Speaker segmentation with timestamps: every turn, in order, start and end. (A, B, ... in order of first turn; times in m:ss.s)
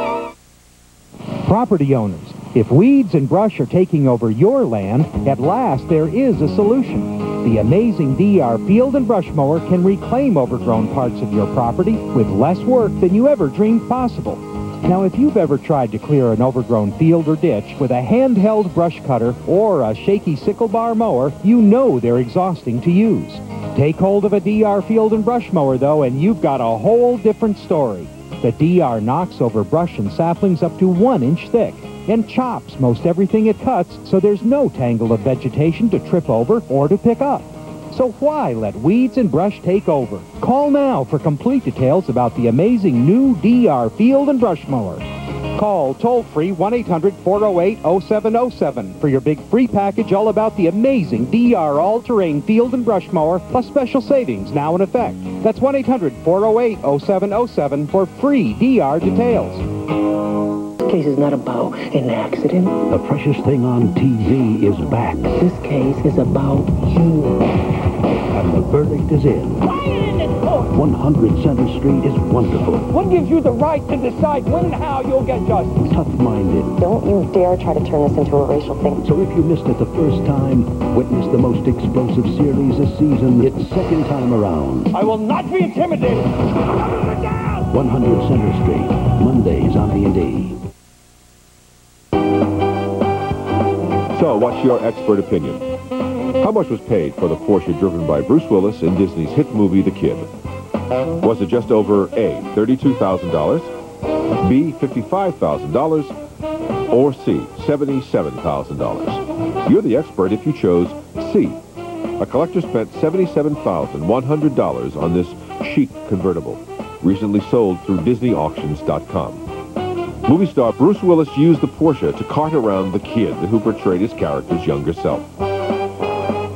0:01.4-0:59.6 A
1:00.9-1:02.8 B
1:02.9-1:05.4 C
1:05.4-1:07.1 B
1:08.3-1:09.6 C
1:10.7-1:12.9 C
1:15.9-1:16.7 C
1:16.8-1:19.0 D
1:19.1-1:24.9 C
1:27.7-1:30.6 C
1:34.1-1:35.6 E
1:36.4-1:40.3 E
1:41.2-1:43.7 E
1:44.4-1:46.1 E
1:46.9-1:51.6 E
1:52.2-1:59.4 E
2:00.3-2:05.3 E